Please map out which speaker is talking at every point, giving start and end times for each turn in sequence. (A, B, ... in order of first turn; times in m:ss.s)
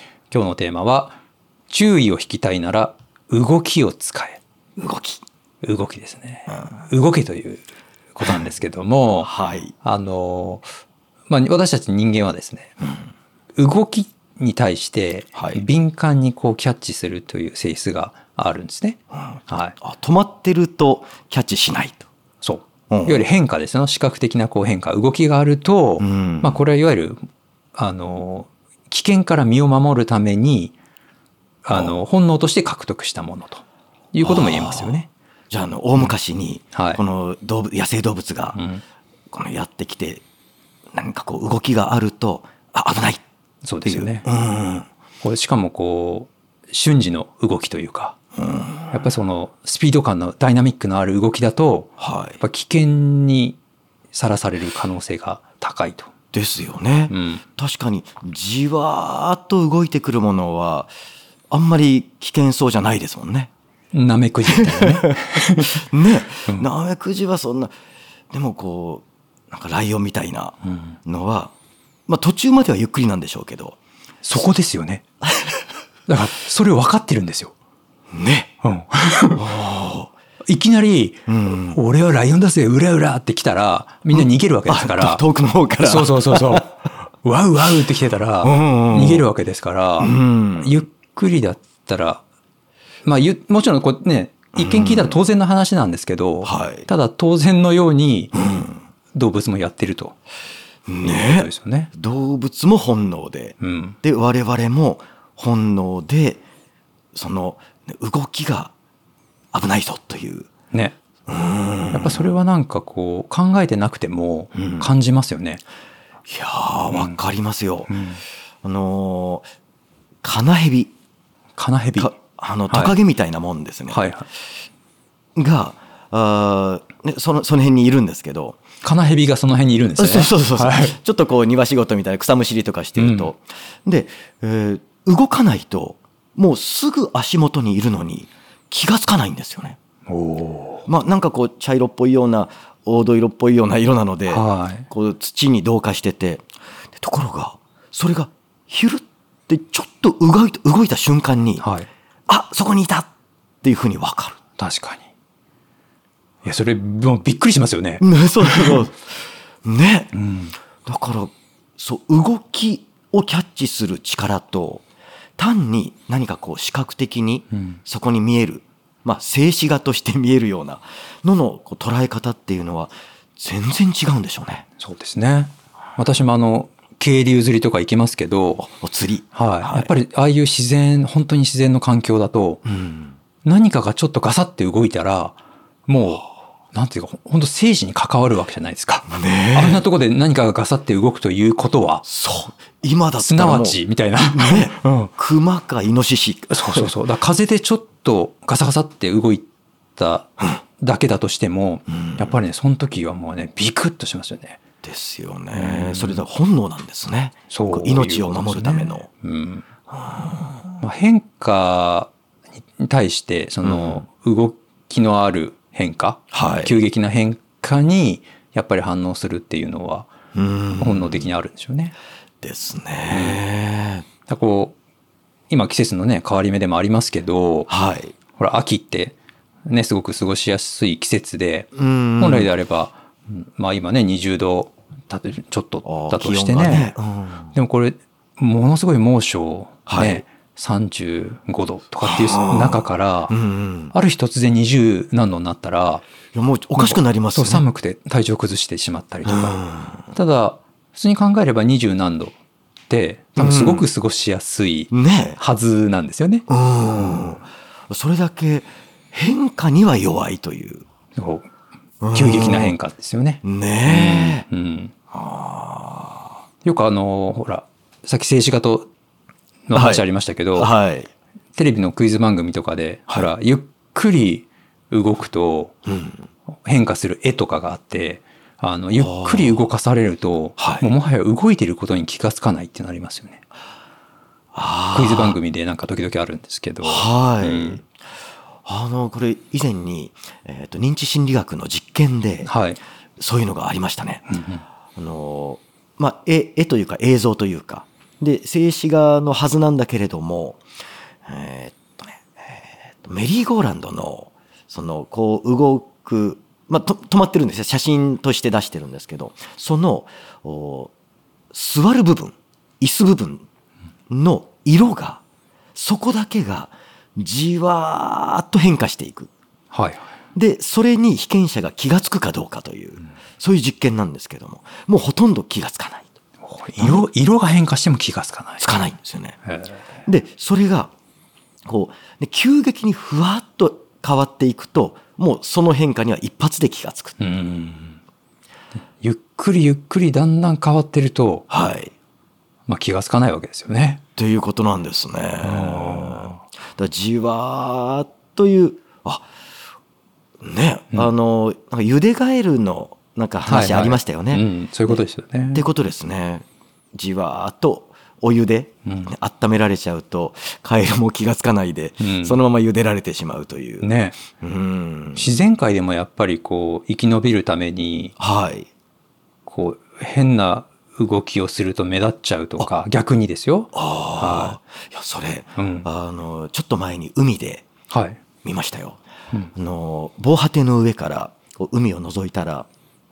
0:00.3-0:01.2 A
0:01.7-0:04.4 A
0:04.8-0:05.2 B
0:05.6-0:09.3 A
0:09.2-0:09.7 B
0:09.8-0:10.7 A
0:11.3-0:12.8 A
0:13.6-0:19.8 A
0:15.4-0:15.6 B
0:19.3-0:22.1 B
0:22.4-0:30.8 A
0:22.9-0:23.2 B
0:26.0-0:26.6 B
0:31.6-0:35.1 A
0:34.2-0:38.6 B
0:36.7-0:37.0 A
0:38.5-0:38.8 A
0:39.3-0:40.2 B
0:40.9-0:43.2 B
0:43.6-0:44.2 A
0:43.8-0:44.9 B
0:45.2-0:48.1 A
0:48.3-0:49.1 B
0:48.9-0:53.6 A
0:52.0-0:52.4 B
0:54.1-0:56.1 A
0:56.3-1:00.9 B
0:57.1-0:57.4 A
1:01.5-1:03.5 B
1:03.9-1:05.9 A
1:04.5-1:07.7 B
1:08.3-1:11.5 B
1:10.7-1:11.0 A
1:12.1-1:13.8 B
1:14.2-1:15.0 A
1:15.3-1:15.5 B
1:16.1-1:17.5 A
1:18.1-1:18.5 B
1:18.6-1:19.4 A
1:19.3-1:20.1 B
1:20.5-1:25.2 A
1:21.3-1:21.8 B
1:24.1-1:26.7 B
1:25.8-1:32.2 A
1:28.4-1:29.3 B
1:30.0-1:30.8 B
1:33.0-1:40.2 A
1:34.6-1:35.2 B
1:36.4-1:36.9 B
1:38.3-1:38.8 B
1:40.9-1:46.4 B
1:41.0-1:41.9 A
1:43.6-1:44.0 A
1:47.1-1:48.7 B
1:49.5-1:50.5 B
1:50.7-1:51.0 A
1:51.3-1:52.3 B
1:51.9-1:55.6 A
1:54.6-1:54.9 B
1:56.3-1:58.0 B
1:56.9-1:57.2 A
1:57.9-1:58.2 A
1:58.6-1:59.4 B
2:00.2-2:00.9 B
2:01.6-2:02.1 A
2:02.0-2:04.0 B
2:03.9-2:04.2 A
2:05.4-2:08.6 B
2:08.8-2:11.0 A
2:10.0-2:19.8 B
2:13.0-2:13.3 A
2:20.1-2:20.9 A
2:20.9-2:31.6 B
2:24.3-2:24.9 A
2:31.6-2:31.9 A
2:32.3-2:33.1 B
2:33.6-2:34.4 B
2:34.6-2:35.1 A
2:36.4-2:38.8 A
2:38.0-2:39.1 B
2:39.6-2:40.1 B
2:40.1-2:40.5 A
2:40.8-2:44.8 B
2:45.4-2:54.7 B
2:54.8-2:58.6 A
2:58.6-2:59.9 B
2:59.3-3:02.6 A
3:02.7-3:03.2 B
3:03.4-3:12.0 A
3:09.1-3:09.8 B
3:12.0-3:16.9 B
3:13.2-3:15.1 A
3:16.5-3:24.6 A
3:21.9-3:22.4 B
3:24.8-3:29.1 B
3:25.5-3:26.2 A
3:27.5-3:29.6 A
3:29.9-3:30.5 B
3:30.8-3:32.1 A
3:32.8-3:40.1 A
3:33.6-3:34.0 B
3:36.3-3:36.8 B
3:40.3-3:41.3 B
3:40.8-3:41.9 A
3:42.4-3:44.1 B
3:43.1-3:43.4 A
3:44.3-3:44.8 A
3:45.5-3:47.7 A
3:47.7-3:48.2 B
3:48.4-3:49.2 A
3:49.7-3:56.9 A
3:51.8-3:52.5 B
3:55.8-3:57.6 B
3:57.5-4:03.3 A
3:59.9-4:00.2 B
4:02.0-4:03.9 B
4:03.9-4:06.0 A
4:06.3-4:07.6 B
4:06.8-4:09.6 A
4:09.2-4:10.1 B
4:10.1-4:12.4 A
4:12.9-4:16.4 A
4:13.4-4:13.9 B
4:14.9-4:15.4 B
4:16.5-4:20.8 B
4:21.1-4:21.5 A
4:22.0-4:22.8 B
4:22.1-4:24.9 A
4:23.4-4:24.4 B
4:25.1-4:26.4 B
4:26.6-4:28.9 A
4:29.7-4:30.7 A
4:29.7-4:31.1 B
4:31.6-4:35.8 A
4:35.9-4:36.2 B
4:36.5-4:43.4 A
4:38.9-4:39.7 B
4:40.6-4:40.9 B
4:44.5-4:45.4 B
4:44.9-4:47.8 A
4:46.8-4:47.9 B
4:48.6-4:52.5 B
4:52.4-4:52.8 A
4:53.2-4:54.3 B
4:54.3-4:54.6 A
4:55.0-5:00.6 B
5:01.2-5:10.9 B
5:11.5-5:13.4 B
5:14.1-5:15.2 B
5:15.8-5:19.3 B
5:19.7-5:20.0 A
5:20.4-5:26.1 B
5:26.4-5:28.7 A
5:26.8-5:27.0 B
5:28.6-5:29.4 B
5:29.5-5:29.8 A
5:30.1-5:30.9 B
5:31.7-5:37.1 B
5:37.2-5:38.0 A
5:39.0-5:41.5 A
5:41.5-5:41.9 B
5:42.7-5:44.0 A
5:44.2-5:49.2 B
5:45.4-5:46.4 A
5:50.4-5:55.0 B
5:53.5-5:55.6 A
5:55.5-6:05.3 B
5:58.9-5:59.1 A
6:02.0-6:02.4 A
6:03.8-6:04.2 A
6:05.2-6:08.1 A
6:08.2-6:08.7 B
6:09.4-6:14.6 A
6:13.7-6:17.7 B
6:15.6-6:15.9 A
6:17.9-6:18.2 A
6:18.4-6:19.0 B
6:19.6-6:22.7 B